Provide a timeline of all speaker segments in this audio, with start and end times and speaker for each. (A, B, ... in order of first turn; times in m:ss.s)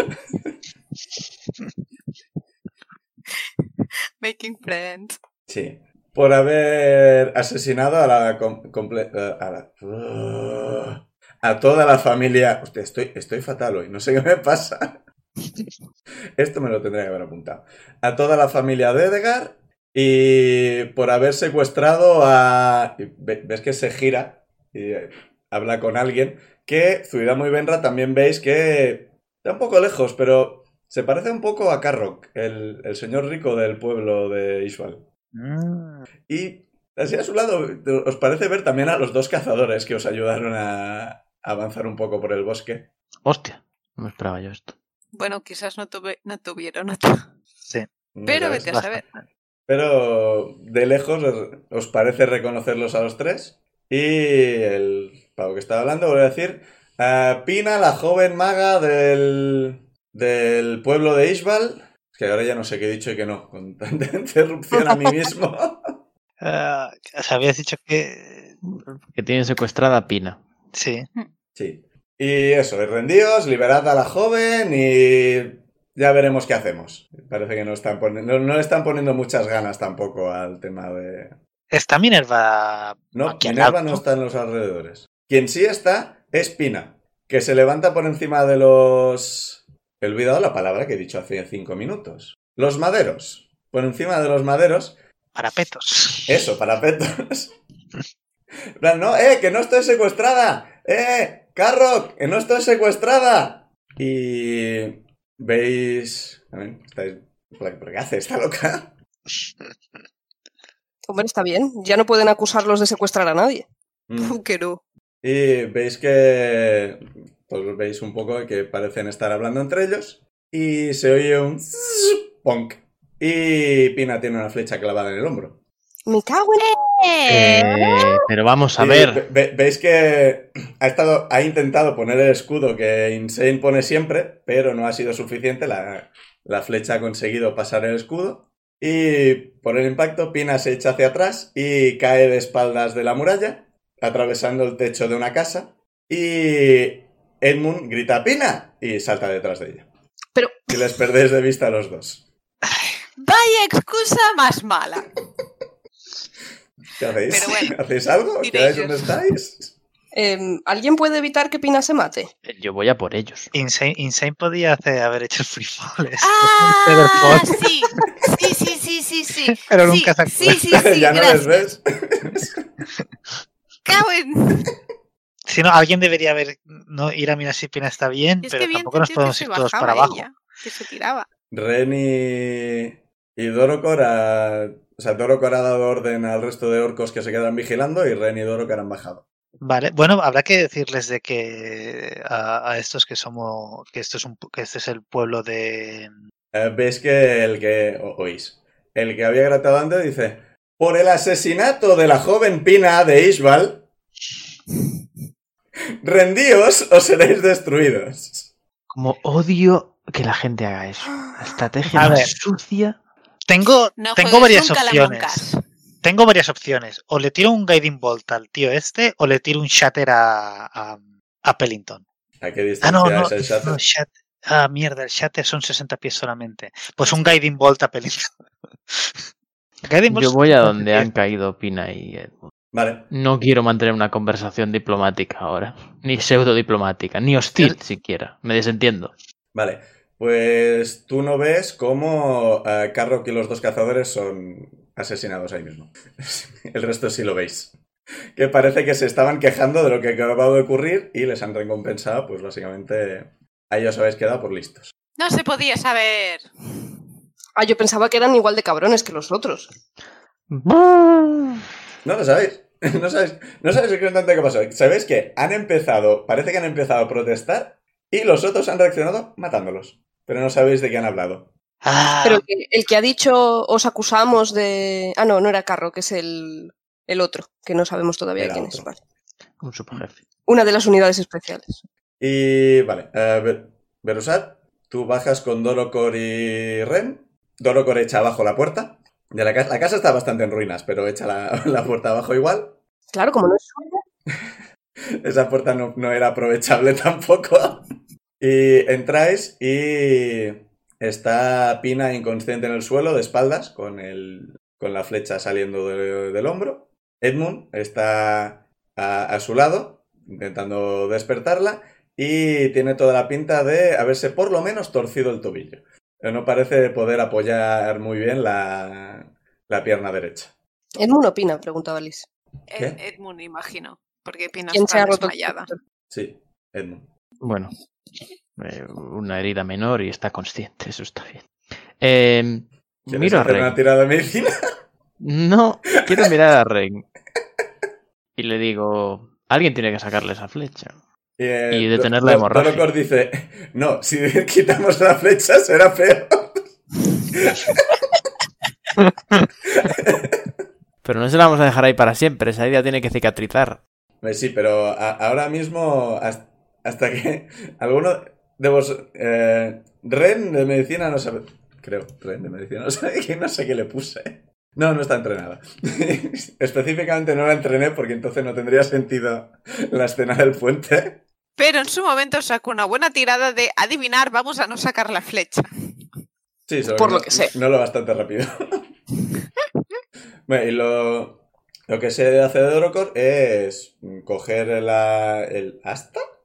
0:00.1-0:00.5 A
0:04.2-0:05.2 B
0:05.5-0:15.0 A
0:16.4-0:35.0 A
0:35.3-0:36.1 C
0:36.3-0:42.9 A
0:43.2-0:44.8 D
0:45.1-0:47.2 B
0:48.1-0:48.9 A
0:48.3-0:49.0 B
0:48.4-0:49.2 C
0:49.7-1:06.0 A
1:04.8-1:05.1 E
1:06.4-1:08.5 C
1:08.6-1:10.4 D
1:10.7-1:11.1 C
1:11.6-1:21.4 A
1:21.7-1:24.0 C
1:23.1-1:35.0 A
1:35.4-1:36.3 C
1:36.3-1:37.5 A
1:38.8-1:48.9 A
1:51.1-1:53.6 E
1:54.1-1:54.4 A
1:54.2-1:54.8 B
1:55.2-2:05.6 A
2:06.1-2:06.7 E
2:06.8-2:07.7 B
2:07.3-2:09.2 D
2:08.8-2:29.9 A
2:30.4-2:30.7 E
2:30.7-2:32.2 A
2:33.2-2:35.1 B
2:37.0-2:39.8 A
2:37.3-2:37.8 B
2:38.4-2:39.1 B
2:40.1-2:42.3 E
2:42.4-2:43.5 D
2:43.5-2:48.1 C
2:46.2-2:51.6 B
2:49.4-2:50.9 C
2:50.7-2:52.7 A
2:53.9-2:54.7 B
2:55.5-3:00.2 C
2:58.4-3:01.3 B
3:01.5-3:09.2 A
3:09.6-3:16.1 C
3:16.5-3:23.9 A
3:26.0-3:28.5 A
3:28.9-3:33.0 D
3:31.9-3:32.4 C
3:33.5-3:35.4 C
3:34.0-3:35.6 B
3:36.0-3:42.0 C
3:42.4-3:43.8 A
3:42.8-3:48.3 C
3:47.0-3:47.4 B
3:48.9-3:49.2 C
3:49.8-3:51.1 C
3:50.1-3:52.5 D
3:52.7-3:53.1 A
3:53.1-3:59.1 D
3:59.5-4:07.7 A
4:08.4-4:14.9 A
4:15.2-4:16.5 B
4:17.6-4:19.7 E
4:20.5-4:21.6 D
4:22.0-4:31.5 A
4:31.8-4:32.4 C
4:32.2-4:39.0 E
4:38.4-4:38.8 A
4:39.6-4:40.2 D
4:40.5-4:41.8 E
4:42.2-4:52.8 A
4:53.1-4:54.0 E
4:55.2-4:57.8 A
4:58.4-5:20.5 A
5:21.0-5:22.3 E
5:22.7-5:25.7 B
5:24.7-5:25.8 E
5:26.1-5:27.1 A
5:27.4-5:27.7 D
5:28.6-5:31.4 D
5:32.0-5:33.8 D
5:33.1-5:34.5 A
5:35.2-5:37.0 D
5:38.4-5:41.0 D
5:41.4-5:46.7 A
5:41.7-5:42.8 D
5:47.3-5:48.0 A
5:49.7-5:50.5 A
5:51.0-5:53.8 D
5:54.2-6:11.2 A
6:11.6-6:15.7 B
6:16.7-6:18.9 A
6:16.9-6:17.5 E
6:20.5-6:26.2 A